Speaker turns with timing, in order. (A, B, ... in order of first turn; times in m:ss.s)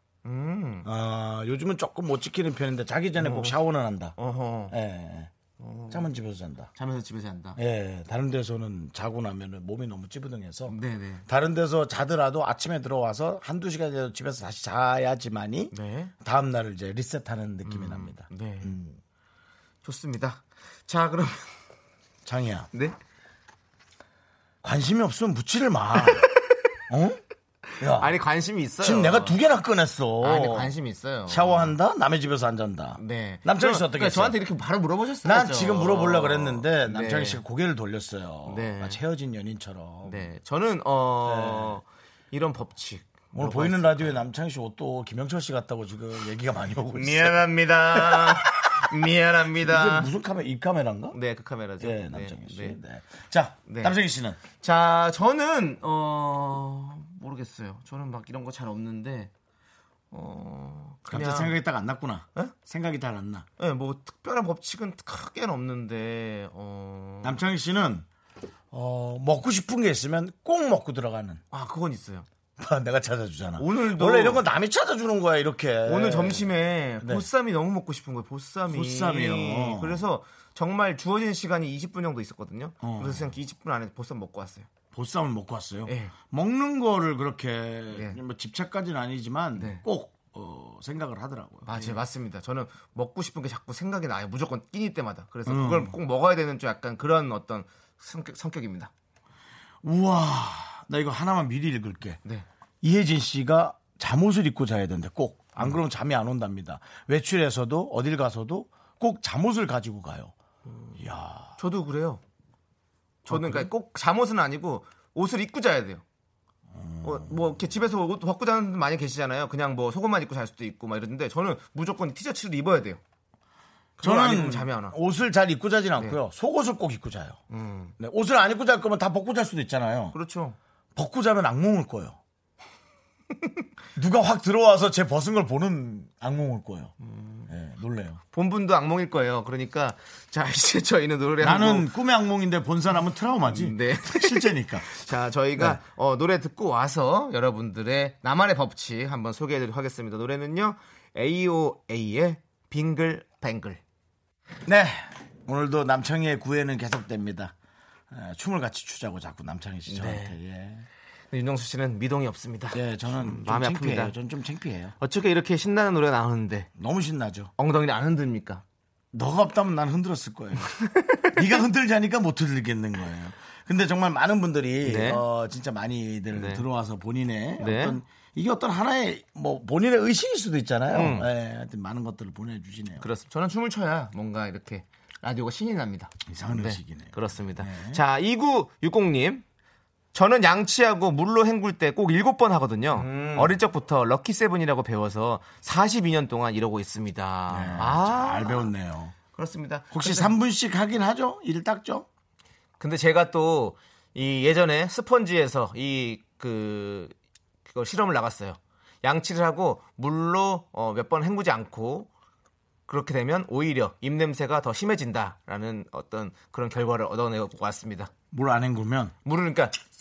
0:00.2-0:00.9 A
0:00.8-0:04.2 B
0:03.2-0:03.6 A
0:04.2-0:04.7 A
0:04.7-0:05.3 B
0:05.6-0:06.1 A
0:05.9-0:06.7 B
0:06.8-0:07.6 A
0:07.6-0:19.0 B
0:10.7-0:11.2 A
0:15.7-0:16.1 A
0:17.6-0:18.7 A
0:19.8-0:21.5 A
0:22.2-0:22.7 B
0:24.6-0:26.3 B
0:26.9-0:27.2 B
0:27.8-0:28.1 B
0:27.9-0:29.4 A
0:28.8-0:30.7 B
0:30.2-0:31.7 A
0:31.3-0:34.4 B
0:33.0-0:37.4 A
0:35.2-0:40.3 B
0:38.4-0:39.0 A
0:40.0-0:44.2 A
0:41.2-0:41.8 B
0:43.3-0:48.9 B
0:46.9-0:50.1 A
0:49.6-0:51.2 B
0:51.1-0:52.8 A
0:51.8-0:54.4 B
0:53.7-0:54.0 A
0:54.5-0:59.3 A
1:00.1-1:01.5 A
1:01.1-1:03.4 B
1:03.6-1:07.4 A
1:07.2-1:08.0 B
1:08.7-1:11.4 B
1:11.5-1:12.2 A
1:12.6-1:16.5 B
1:13.6-1:14.4 A
1:15.8-1:24.7 A
1:17.0-1:17.2 B
1:18.7-1:20.0 B
1:22.8-1:23.3 B
1:24.9-1:32.0 B
1:25.8-1:26.1 A
1:27.9-1:28.2 A
1:29.6-1:29.8 A
1:31.6-1:38.9 A
1:35.5-1:36.0 B
1:39.8-1:42.2 B
1:42.8-1:50.3 B
1:50.6-1:51.0 A
1:51.0-1:51.5 B
1:51.6-1:52.2 A
1:53.2-1:56.0 A
1:53.3-1:53.7 B
1:56.7-1:57.6 B
1:57.0-2:03.0 A
2:04.0-2:04.9 A
2:04.0-2:07.4 B
2:07.5-2:07.9 A
2:08.0-2:10.2 B
2:10.1-2:10.6 A
2:11.0-2:12.2 B
2:14.0-2:16.9 B
2:17.0-2:17.5 A
2:17.5-2:18.2 B
2:18.3-2:21.9 A
2:21.4-2:24.9 B
2:23.4-2:33.8 A
2:25.6-2:25.8 B
2:34.6-2:37.5 B
2:38.1-2:40.8 B
2:39.9-2:40.3 A
2:41.3-2:44.1 A
2:42.7-2:45.0 B
2:45.0-2:46.7 A
2:46.8-2:47.5 B
2:47.6-2:48.6 A
2:49.1-2:50.8 B
2:50.8-2:51.4 A
2:51.3-3:03.0 B
2:54.8-2:55.2 A
2:56.3-2:56.6 A
2:57.6-2:58.0 A
3:00.9-3:01.3 A
3:03.0-3:09.4 A
3:06.2-3:08.0 B
3:10.1-3:18.7 A
3:12.9-3:13.6 B
3:17.5-3:19.1 B
3:19.3-3:20.3 A
3:19.9-3:22.1 B
3:22.8-3:27.1 A
3:27.7-3:32.1 A
3:32.9-3:38.1 A
3:38.3-3:39.1 B
3:39.2-3:39.8 A